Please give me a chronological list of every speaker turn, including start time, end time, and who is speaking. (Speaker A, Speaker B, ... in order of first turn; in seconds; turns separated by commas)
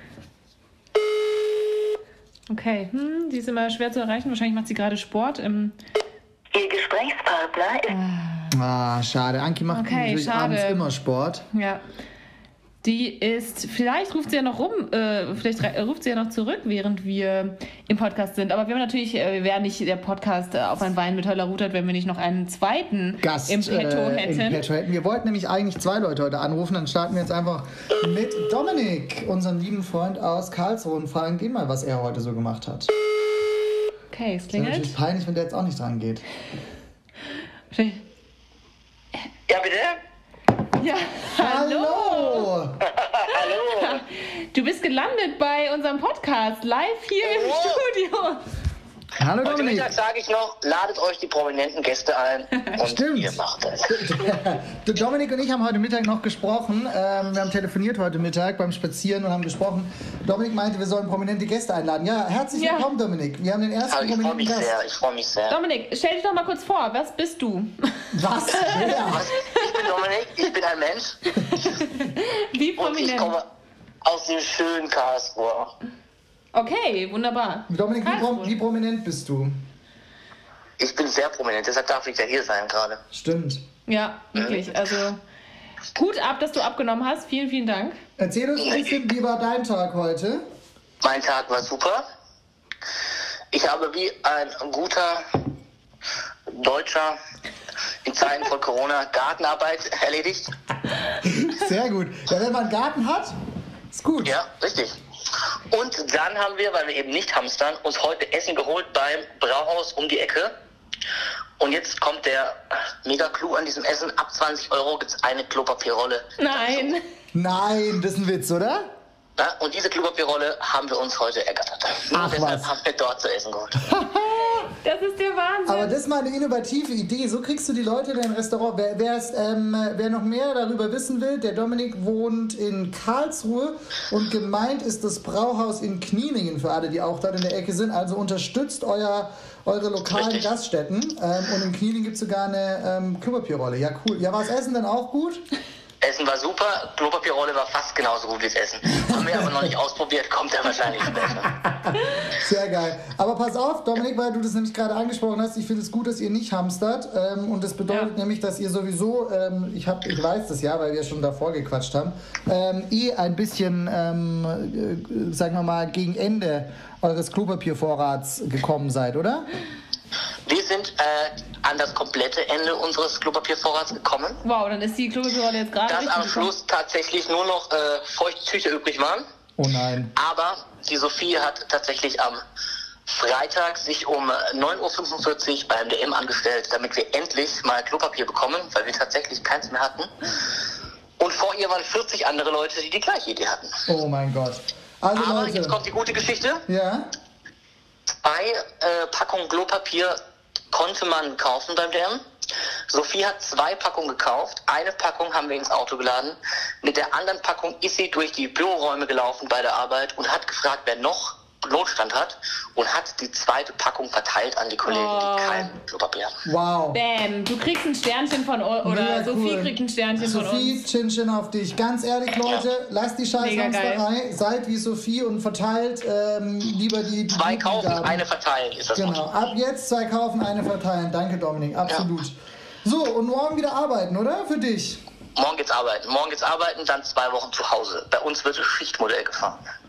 Speaker A: 2.5-5.8, Speaker B: 6.5-7.9, Speaker A: 7.9-8.5, Speaker C: 8.5-11.4, Speaker A: 9.7-10.9, Speaker A: 11.5-11.8, Speaker A: 12.8-24.7, Speaker C: 23.2-32.9, Speaker A: 34.1-35.0, Speaker C: 34.5-36.2, Speaker A: 37.7-38.0, Speaker B: 39.5-40.0, Speaker A: 40.8-42.5, Speaker C: 41.3-42.8, Speaker B: 42.9-44.0, Speaker A: 43.3-48.4, Speaker B: 47.2-47.8, Speaker C: 49.2-49.9, Speaker B: 49.4-54.1, Speaker C: 52.8-64.8, Speaker A: 62.5-62.9, Speaker B: 63.9-65.6, Speaker A: 65.5-68.1, Speaker C: 68.1-69.3, Speaker A: 68.6-69.0, Speaker B: 68.9-71.6, Speaker A: 71.4-73.3, Speaker B: 72.8-73.4, Speaker B: 74.0-75.7, Speaker A: 76.5-78.5, Speaker C: 77.7-79.5, Speaker B: 80.8-83.0, Speaker C: 83.1-83.6, Speaker A: 83.9-85.2, Speaker B: 84.3-84.8, Speaker A: 85.9-88.0, Speaker C: 88.2-90.4, Speaker B: 88.6-89.0, Speaker B: 91.0-92.0, Speaker B: 93.5-95.2, Speaker B: 96.5-97.2, Speaker B: 98.0-100.5, Speaker C: 101.2-103.3, Speaker C: 103.9-104.3, Speaker B: 104.2-105.0, Speaker B: 105.7-110.5, Speaker B: 111.6-116.9, Speaker A: 116.4-117.0, Speaker C: 117.3-118.9, Speaker B: 119.4-123.8, Speaker C: 122.1-122.7, Speaker C: 123.8-124.7, Speaker A: 124.6-126.0, Speaker C: 125.7-145.4, Speaker B: 140.1-140.5, Speaker B: 146.0-151.5, Speaker C: 151.7-169.5, Speaker B: 170.5-174.4, Speaker A: 174.4-176.5, Speaker B: 175.9-179.2, Speaker C: 179.6-180.1, Speaker B: 180.2-182.4, Speaker B: 183.1-190.1, Speaker B: 191.2-193.8, Speaker C: 193.9-195.8, Speaker B: 195.1-196.6, Speaker C: 196.7-197.1, Speaker B: 198.2-200.1, Speaker B: 200.7-202.2, Speaker B: 202.9-216.3, Speaker A: 214.8-215.7, Speaker C: 216.4-217.0, Speaker A: 216.9-220.9, Speaker C: 218.8-228.2, Speaker A: 223.4-224.0, Speaker B: 227.3-229.3, Speaker C: 228.9-235.0, Speaker B: 235.3-239.6